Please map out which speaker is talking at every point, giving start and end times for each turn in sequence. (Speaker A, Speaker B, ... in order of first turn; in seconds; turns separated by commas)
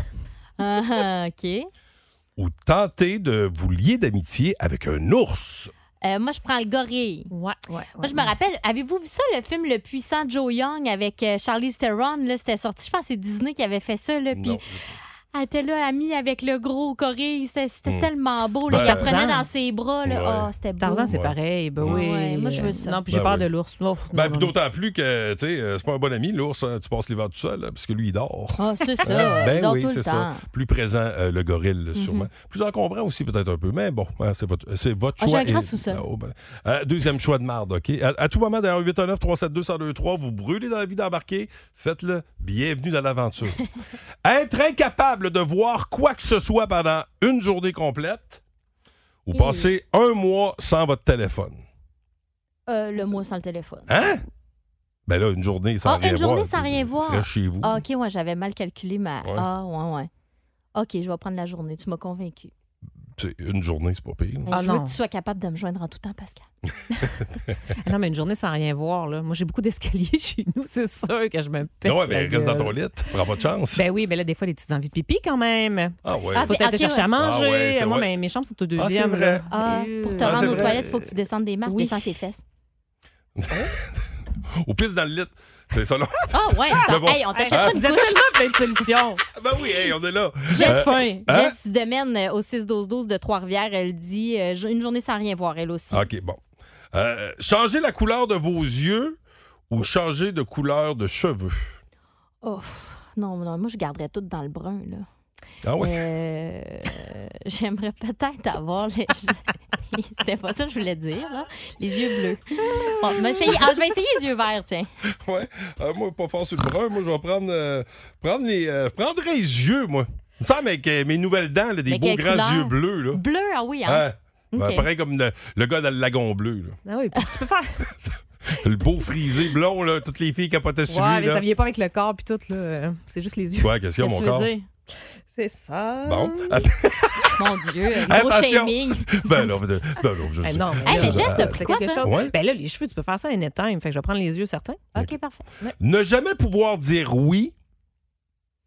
Speaker A: 0.6-1.7, Speaker B: 2.4-5.7, Speaker A: 6.0-7.3, Speaker C: 7.3-8.4, Speaker A: 8.0-14.6, Speaker B: 14.3-14.8, Speaker A: 15.3-21.1, Speaker B: 18.7-19.1, Speaker C: 18.7-19.5, Speaker B: 20.1-20.5, Speaker C: 20.8-24.5, Speaker B: 21.1-22.0, Speaker A: 21.9-23.0, Speaker B: 23.1-23.5, Speaker B: 24.1-43.6, Speaker A: 28.6-30.4, Speaker A: 31.9-32.3, Speaker A: 35.2-36.0, Speaker B: 44.2-48.4, Speaker B: 49.3-51.6, Speaker A: 49.3-49.7, Speaker A: 52.7-54.0, Speaker B: 53.9-54.2, Speaker B: 55.1-57.8, Speaker A: 55.8-60.1, Speaker A: 60.8-62.5, Speaker B: 63.2-64.5, Speaker A: 64.5-66.5, Speaker C: 64.5-65.0, Speaker C: 67.8-72.8, Speaker B: 71.8-73.8, Speaker C: 73.7-80.8, Speaker B: 76.0-76.6, Speaker A: 76.3-77.1, Speaker B: 77.1-78.1, Speaker B: 78.8-79.4, Speaker A: 79.5-82.4, Speaker B: 80.2-81.0, Speaker C: 81.7-82.2, Speaker B: 83.4-84.0, Speaker B: 84.6-87.8, Speaker A: 86.3-88.2, Speaker C: 87.3-89.2, Speaker B: 89.4-91.5, Speaker C: 90.5-91.3, Speaker A: 90.5-96.0, Speaker B: 95.9-96.4, Speaker B: 96.9-99.2, Speaker B: 99.7-101.7, Speaker A: 102.4-105.1, Speaker B: 105.6-106.1, Speaker A: 105.8-114.9, Speaker B: 115.2-123.2, Speaker A: 121.9-124.9, Speaker B: 123.9-126.8, Speaker C: 126.9-127.9, Speaker B: 128.5-131.4, Speaker C: 130.9-133.7, Speaker B: 133.6-134.5, Speaker A: 134.0-134.7, Speaker C: 135.3-136.7, Speaker B: 136.1-137.3, Speaker A: 137.4-139.4, Speaker B: 138.1-142.3, Speaker C: 140.4-144.9, Speaker A: 140.8-142.0, Speaker A: 144.9-145.4, Speaker B: 145.8-147.5